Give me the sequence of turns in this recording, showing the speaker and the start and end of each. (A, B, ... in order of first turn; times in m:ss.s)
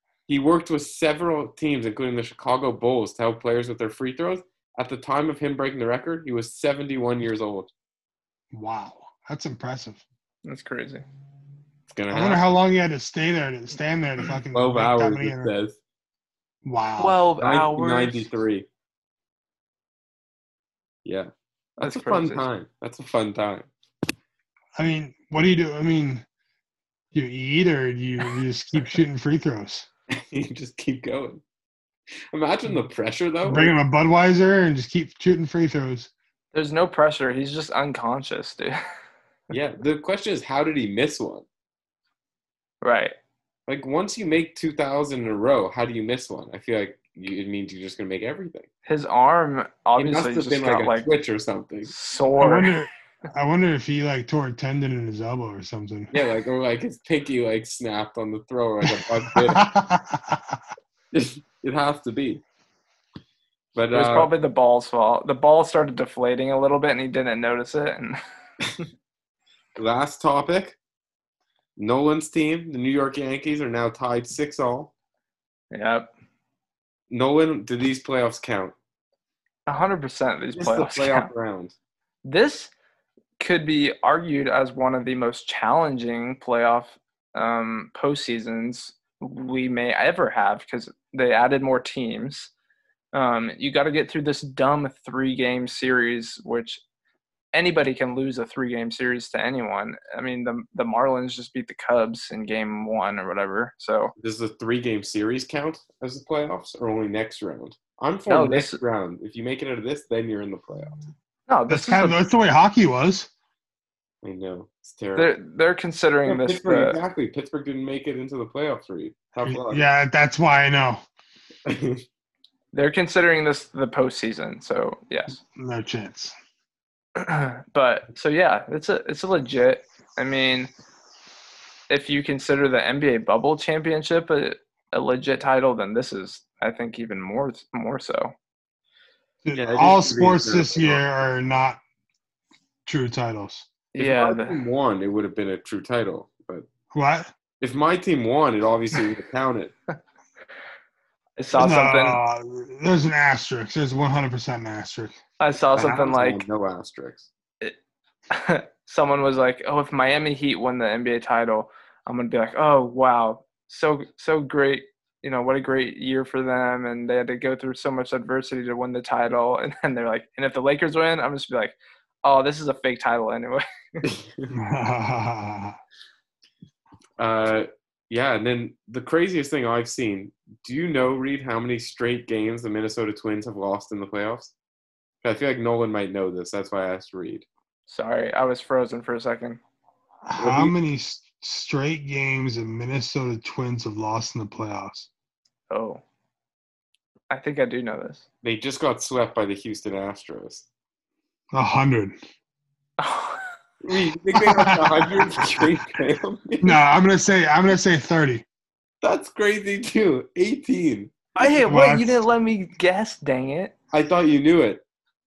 0:00.3-0:07.7 A
0:08.5-0:10.0 B
0:10.4-0:11.0 C
0:11.9-0:12.4 A
0:12.1-0:15.5 B
0:14.5-0:15.8 A
0:16.6-0:17.2 B
0:17.0-0:18.3 C
0:17.4-0:18.6 A
0:21.0-0:21.3 A
0:21.8-0:22.4 C
0:21.8-0:23.7 A
0:24.8-0:26.2 B
0:27.1-0:29.9 B
0:30.1-0:31.4 A
0:32.3-0:33.7 A
0:33.4-0:36.1 B
0:36.5-0:38.8 C
0:39.5-0:41.4 A
0:42.8-0:43.1 C
0:43.7-0:48.7 A
0:48.8-0:51.1 C
0:50.0-0:51.9 A
0:51.8-0:52.7 C
0:52.4-0:56.1 B
0:56.1-0:59.7 A
0:58.8-1:00.6 B
1:01.1-1:02.4 A
1:03.7-1:04.3 A
1:03.9-1:08.2 C
1:09.7-1:10.8 A
1:11.8-1:14.9 A
1:15.7-1:16.1 C
1:17.1-1:18.7 A
1:19.7-1:21.3 C
1:20.5-1:21.7 A
1:22.2-1:22.7 C
1:23.4-1:32.5 C
1:33.1-1:36.8 C
1:37.5-1:44.1 C
1:44.2-1:51.0 A
1:48.3-1:48.8 C
1:51.5-1:52.2 C
1:51.7-1:53.3 B
1:54.2-1:55.3 A
1:55.2-1:57.0 C
1:56.2-1:59.8 A
1:59.4-2:01.0 B
2:01.6-2:02.0 A
2:02.7-2:05.4 C
2:05.6-2:06.3 B
2:07.2-2:10.7 C
2:11.9-2:18.3 C
2:19.4-2:21.8 B
2:19.5-2:21.0 A
2:22.8-2:23.7 B
2:23.9-2:24.6 C
2:24.0-2:26.6 A
2:26.9-2:27.3 B
2:27.6-2:29.7 A
2:31.4-2:32.2 C
2:31.5-2:35.2 B
2:35.4-2:36.4 C
2:35.7-2:37.3 A
2:38.3-2:54.0 C
2:54.0-2:54.5 A
2:54.5-2:55.8 B
2:57.2-3:04.5 A
3:05.2-3:07.4 A
3:07.9-3:09.6 C
3:10.2-3:15.1 B
3:10.4-3:10.7 A
3:15.7-3:16.0 C
3:17.3-3:18.2 C
3:18.4-3:20.6 A
3:21.5-3:22.1 B
3:23.0-3:23.5 C
3:23.8-3:26.8 A
3:24.3-3:25.5 B
3:26.6-3:28.4 B
3:29.0-3:31.1 A
3:31.4-3:33.7 C
3:31.6-3:32.2 B
3:33.9-3:34.8 A